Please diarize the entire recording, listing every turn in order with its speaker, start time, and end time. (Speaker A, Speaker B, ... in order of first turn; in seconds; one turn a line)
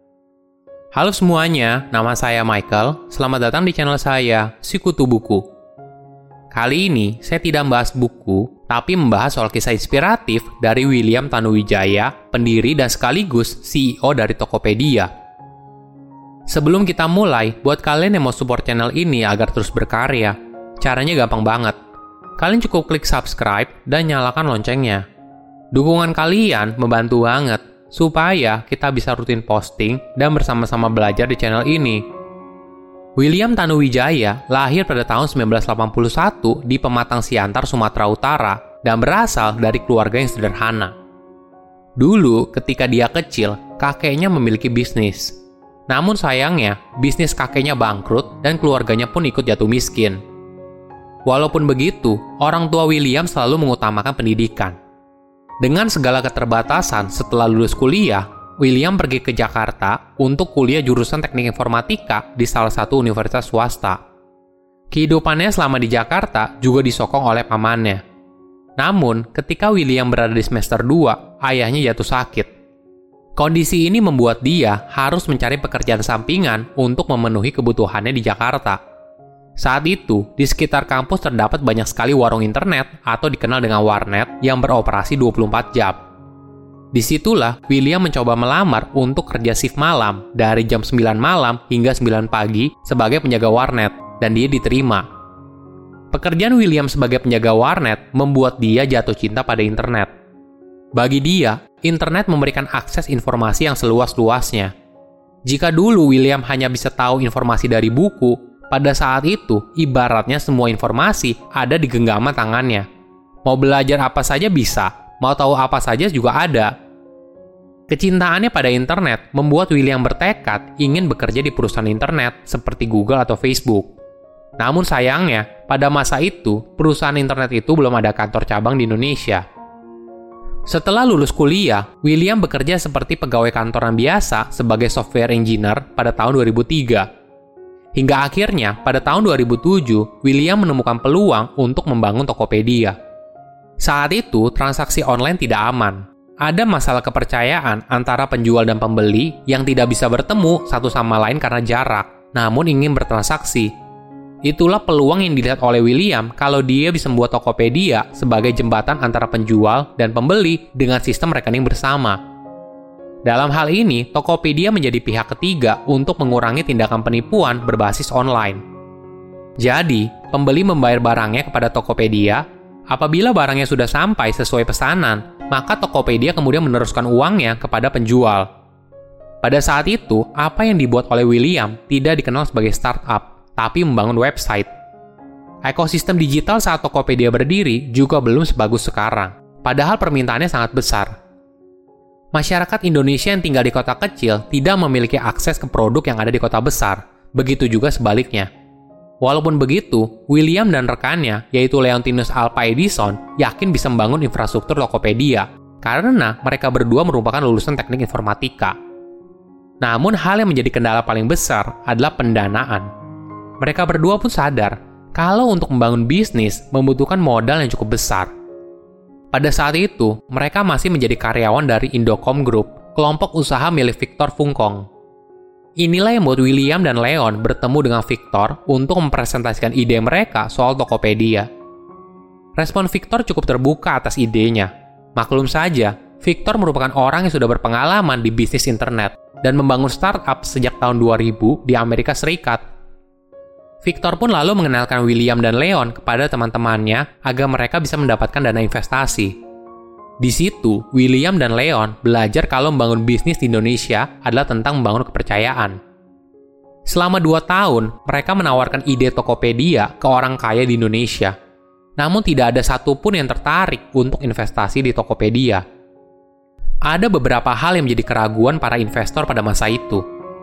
Speaker A: 0.9-5.5
Speaker A: 6.5-15.1
Speaker A: 16.5-21.8
Speaker A: 22.4-25.0
Speaker A: 25.7-32.0
Speaker A: 33.2-40.9
Speaker A: 42.0-45.4
Speaker A: 45.9-50.2
Speaker A: 51.2-54.8
Speaker A: 55.6-64.0
Speaker A: 64.9-68.0
Speaker A: 68.8-72.5
Speaker A: 73.4-78.8
Speaker A: 79.6-86.0
Speaker A: 86.9-95.1
Speaker A: 96.1-100.1
Speaker A: 100.9-104.7
Speaker A: 105.4-112.8
Speaker A: 113.4-116.7
Speaker A: 117.9-123.9
Speaker A: 124.6-129.4
Speaker A: 130.7-137.1
Speaker A: 137.9-143.0
Speaker A: 143.8-153.7
Speaker A: 154.4-162.2
Speaker A: 163.2-168.6
Speaker A: 169.6-178.5
Speaker A: 179.4-184.7
Speaker A: 185.7-191.1
Speaker A: 192.3-198.5
Speaker A: 199.2-208.8
Speaker A: 209.8-212.9
Speaker A: 213.6-218.3
Speaker A: 219.3-224.8
Speaker A: 225.8-231.5
Speaker A: 232.6-242.6
Speaker A: 243.8-249.3
Speaker A: 250.2-255.8
Speaker A: 256.9-261.4
Speaker A: 262.0-265.6
Speaker A: 266.9-270.0